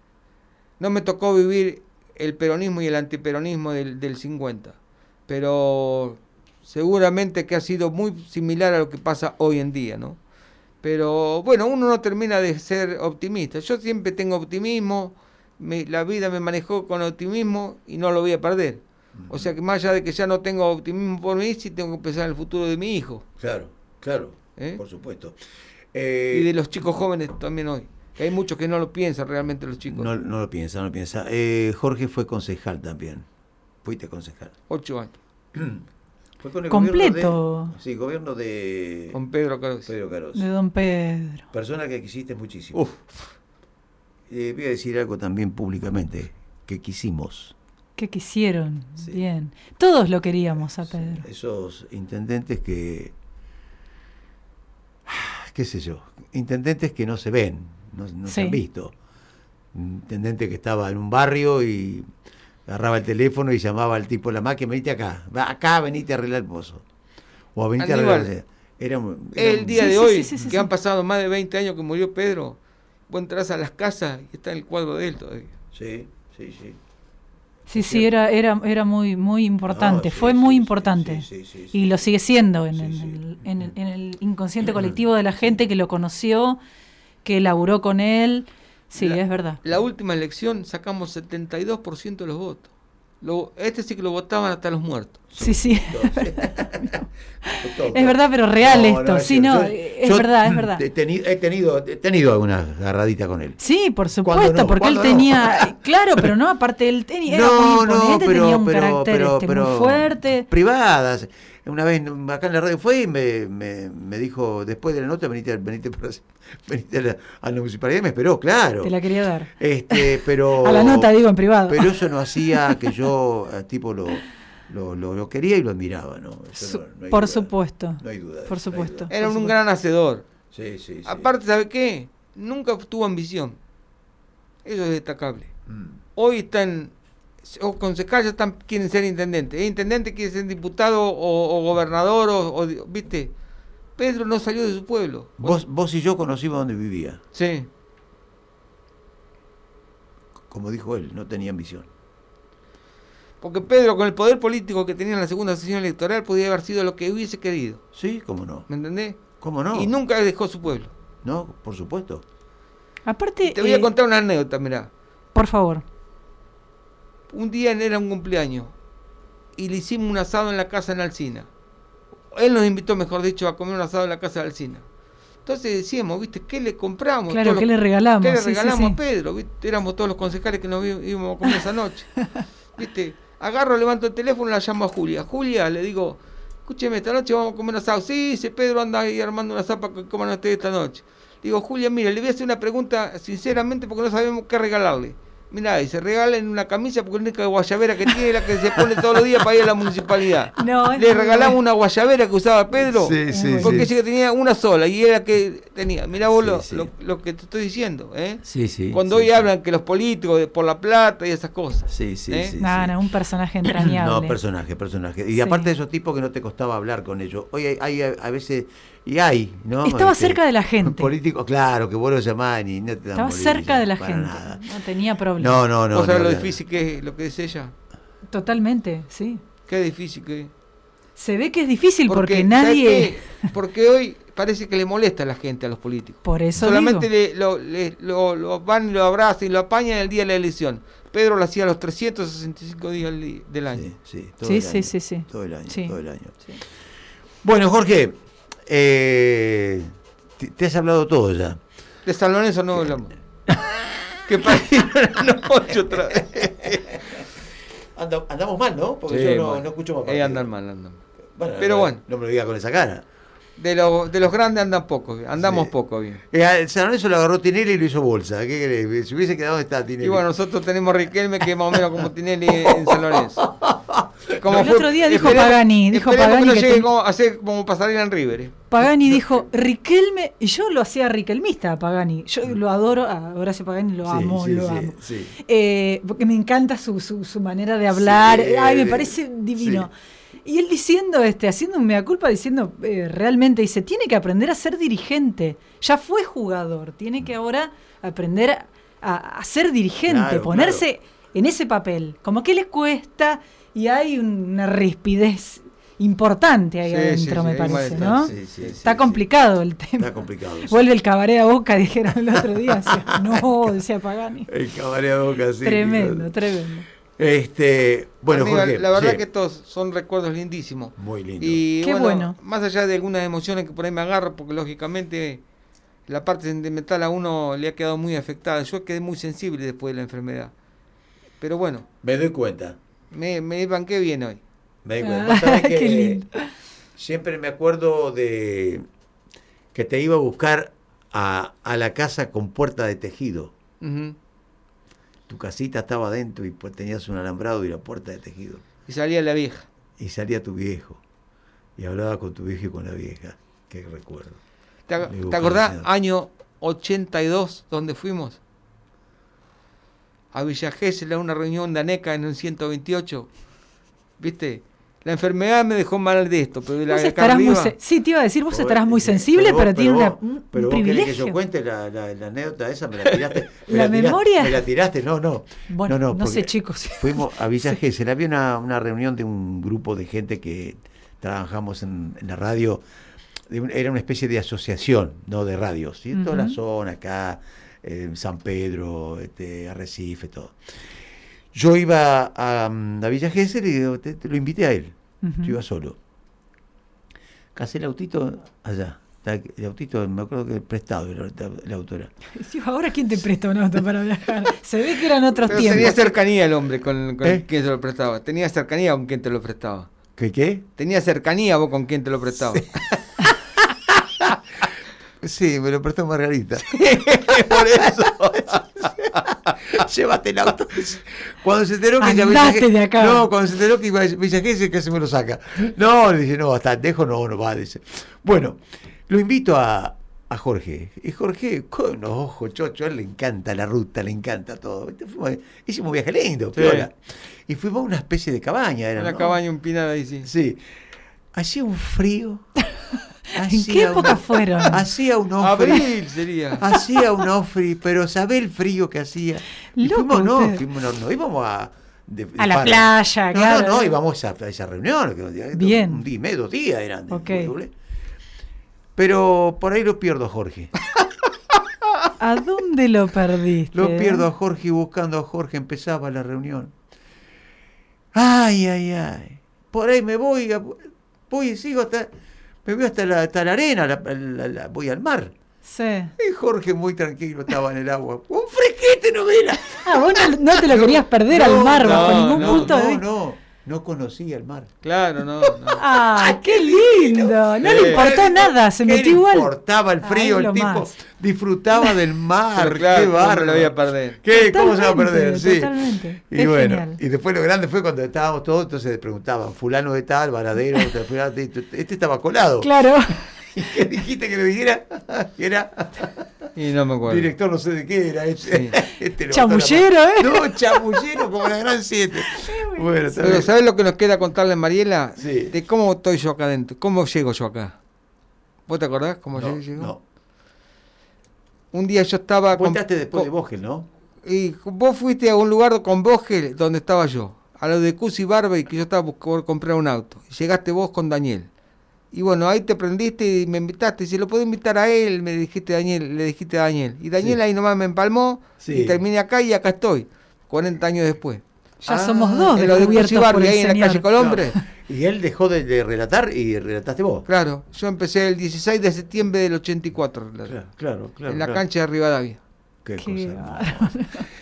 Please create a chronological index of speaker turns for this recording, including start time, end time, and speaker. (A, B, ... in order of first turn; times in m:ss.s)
0:00.8-0:04.8 A
0:05.3-0:10.2 A
0:10.8-0:23.2 A
0:19.2-0:19.5 B
0:23.4-0:25.4 B
0:25.9-0:26.5 B
0:26.3-0:30.1 A
0:29.9-0:33.3 B
0:33.8-0:34.5 B
0:34.7-0:35.1 A
0:35.5-0:35.8 B
0:36.4-0:39.2 B
0:36.7-0:37.8 C
0:39.1-0:39.9 A
0:39.9-0:40.5 B
0:40.4-0:41.5 C
0:41.5-0:42.8 B
0:42.7-0:43.0 A
0:44.3-0:47.5 B
0:48.0-0:51.3 C
0:50.8-0:53.1 B
0:55.1-0:59.0 B
0:58.3-0:58.6 C
0:59.7-1:02.1 B
1:02.7-1:06.8 B
1:07.6-1:10.5 B
1:07.8-1:08.3 A
1:09.4-1:12.6 A
1:09.8-1:10.7 C
1:13.1-1:15.5 A
1:15.7-1:16.8 B
1:17.7-1:26.6 C
1:17.8-1:18.1 B
1:19.7-1:21.9 B
1:22.7-1:23.2 B
1:27.2-1:29.6 C
1:29.0-1:32.7 A
1:33.2-1:35.2 A
1:35.3-1:43.6 B
1:35.4-1:40.8 C
1:43.6-1:50.5 C
1:44.2-1:46.2 B
1:47.3-1:59.0 B
1:58.8-2:02.9 C
1:59.6-2:09.3 B
2:06.6-2:09.5 C
2:09.1-2:10.2 A
2:10.5-2:11.3 B
2:11.0-2:13.6 A
2:14.6-2:15.5 A
2:15.7-2:16.0 B
2:16.2-2:23.3 A
2:24.0-2:25.6 A
2:25.4-2:27.2 B
2:27.3-2:27.7 A
2:30.5-2:31.9 B
2:33.4-2:37.8 A
2:37.9-2:38.7 B
2:38.7-2:40.9 A
2:39.4-2:39.9 B
2:41.2-2:42.2 B
2:43.1-2:43.9 C
2:43.4-2:44.9 A
2:45.3-2:45.8 C
2:47.3-2:48.7 A
2:49.6-2:51.5 A
2:52.3-2:54.8 A
2:55.5-3:32.5 A
2:57.3-2:59.0 C
3:20.6-3:21.6 C
3:22.8-3:23.9 B
3:23.3-3:23.9 C
3:26.3-3:26.9 B
3:28.4-3:29.5 B
3:31.9-3:33.0 B
3:32.6-3:34.4 C
3:33.7-3:44.7 B
3:35.4-3:35.7 C
3:39.8-3:41.1 C
3:43.1-3:45.6 C
3:45.4-3:46.6 B
3:45.9-3:47.7 A
3:48.3-3:49.4 C
3:49.7-3:50.5 A
3:51.2-3:53.4 C
3:52.1-4:03.9 A
3:56.2-3:57.1 C
4:03.7-4:06.4 B
4:04.4-4:06.0 C
4:07.4-4:11.6 B
4:12.0-4:13.1 A
4:14.3-4:16.9 A
4:15.7-4:17.2 B
4:18.0-4:20.4 B
4:19.1-4:21.0 A
4:21.4-4:23.0 B
4:21.6-4:22.0 A
4:23.6-4:26.2 A
4:25.4-4:25.7 B
4:26.3-4:30.3 B
4:30.0-4:33.5 A
4:32.6-4:34.7 B
4:34.4-4:38.7 A
4:34.5-4:36.9 C
4:38.7-4:49.9 C
4:44.0-4:45.4 B
4:47.9-4:49.9 B
4:50.4-5:10.1 C
5:00.1-5:00.8 B
5:06.9-5:08.8 A
5:07.6-5:09.2 B
5:10.0-5:10.8 B
5:10.6-5:14.5 C
5:12.7-5:13.4 B
5:14.5-5:16.3 B
5:15.6-5:16.9 C
5:17.2-5:19.2 B
5:18.3-5:25.4 A
5:21.0-5:21.6 B
5:21.8-5:22.4 C
5:26.1-5:30.5 A
5:31.4-5:31.9 A
5:32.0-5:32.8 B
5:33.1-5:34.4 A
5:34.8-5:36.2 B
5:35.0-5:36.5 C
5:37.0-5:38.9 B
5:39.7-5:43.5 B
5:43.8-5:44.2 A
5:45.3-5:48.6 B
5:48.9-5:49.7 A
5:50.0-5:51.0 B
5:51.8-5:54.4 B
5:54.9-5:58.4 A
5:55.0-5:55.9 B
6:00.3-6:03.3 A
6:04.2-6:07.7 A
6:06.9-6:11.4 C
6:08.5-6:22.8 B
6:13.7-6:14.6 C
6:15.7-6:17.8 C
6:23.5-6:30.6 B
6:26.1-6:26.6 C
6:31.5-6:36.0 B
6:35.2-6:35.6 C
6:37.6-6:42.1 B
6:42.4-6:46.0 C
6:45.4-6:46.1 B
6:45.5-6:49.9 A
6:50.2-6:50.6 B
6:50.8-6:52.6 A
6:52.6-6:53.0 B
6:54.0-6:54.4 B
6:55.2-7:19.4 B
6:56.7-6:58.6 A
7:02.0-7:03.3 C
7:16.6-7:16.9 A
7:19.0-7:20.3 A
7:20.2-7:20.6 B
7:21.3-7:22.5 B
7:23.3-7:25.9 B
7:23.4-7:24.8 C
7:25.4-7:26.6 A
7:26.6-7:37.7 B
7:29.8-7:30.6 C
7:32.4-7:34.0 C
7:35.5-7:36.0 C
7:37.1-7:37.5 C
7:39.0-7:40.7 B
7:42.2-7:44.3 C
7:43.7-7:46.7 B
7:48.1-7:52.1 B
7:52.6-7:55.3 B
7:55.6-7:56.1 C
7:56.2-8:04.7 B
7:59.8-8:03.0 C
8:01.8-8:02.7 A
8:04.8-8:05.8 A
8:05.4-8:15.7 B
8:05.7-8:10.9 C
8:07.7-8:08.1 A
8:12.6-8:14.2 A
8:14.3-8:17.0 C
8:16.3-8:26.3 B
8:22.6-8:23.3 C
8:26.6-8:27.3 A
8:27.1-8:33.5 B
8:28.5-8:28.7 A
8:29.3-8:31.1 C
8:32.4-8:33.2 C
8:33.2-8:37.8 A
8:35.2-8:35.5 B
8:38.7-8:39.9 A
8:39.3-8:40.0 B
8:41.7-8:43.3 A
8:42.6-8:43.9 B
8:44.2-8:51.5 A
8:52.1-9:01.4 A
8:58.6-8:59.0 B
9:01.8-9:04.1 C
9:01.8-9:03.1 B
9:02.6-9:04.6 A
9:04.2-9:07.3 B
9:07.3-9:10.6 A
9:10.5-9:11.6 B
9:11.3-9:12.4 A
9:12.8-9:14.3 B
9:13.0-9:14.2 C